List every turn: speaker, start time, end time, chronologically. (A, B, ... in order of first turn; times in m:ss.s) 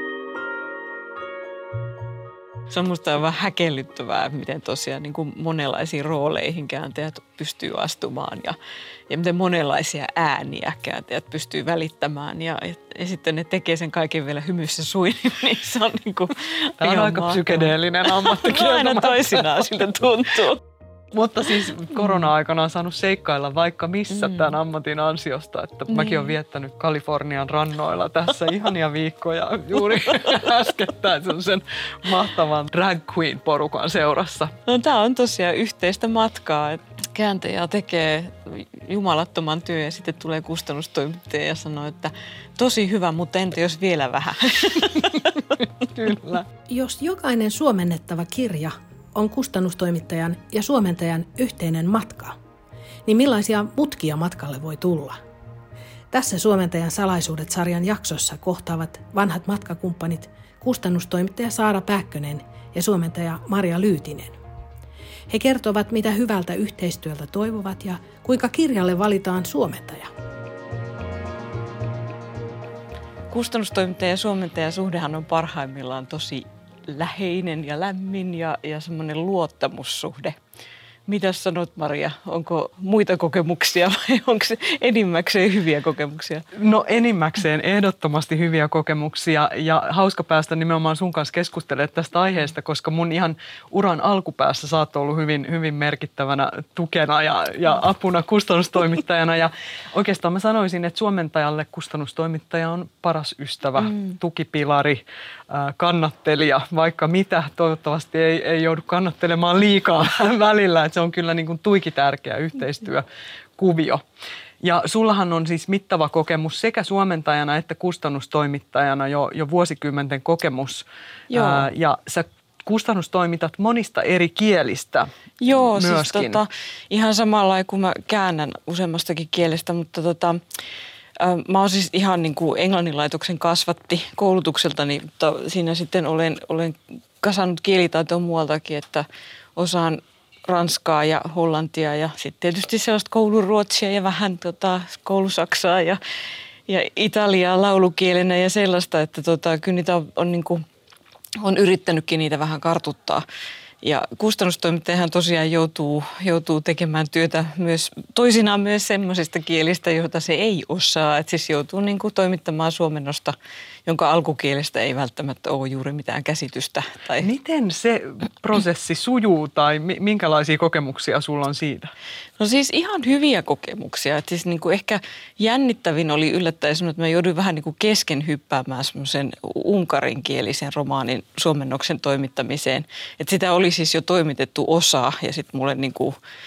0:02.7-0:08.6 A
0:09.1-0:20.6 A
0:16.8-0:19.8 B
0:21.1-0:34.6 B
0:25.9-0:26.3 A
0:34.7-0:45.4 A
0:45.9-0:46.4 B
0:46.7-0:52.4 C
0:53.1-0:55.2 C
0:56.1-1:04.4 C
1:05.3-1:10.1 C
1:13.3-1:20.4 A
1:21.1-1:26.5 A
1:26.5-1:53.1 B
1:53.6-1:54.0 B
1:54.6-2:05.1 B
2:01.3-2:01.7 A
2:05.4-2:10.4 A
2:05.6-2:06.4 B
2:11.2-2:26.0 A
2:26.7-2:30.6 A
2:31.4-2:33.2 A
2:33.8-2:47.3 A
2:47.2-2:51.9 B
2:52.4-3:06.2 A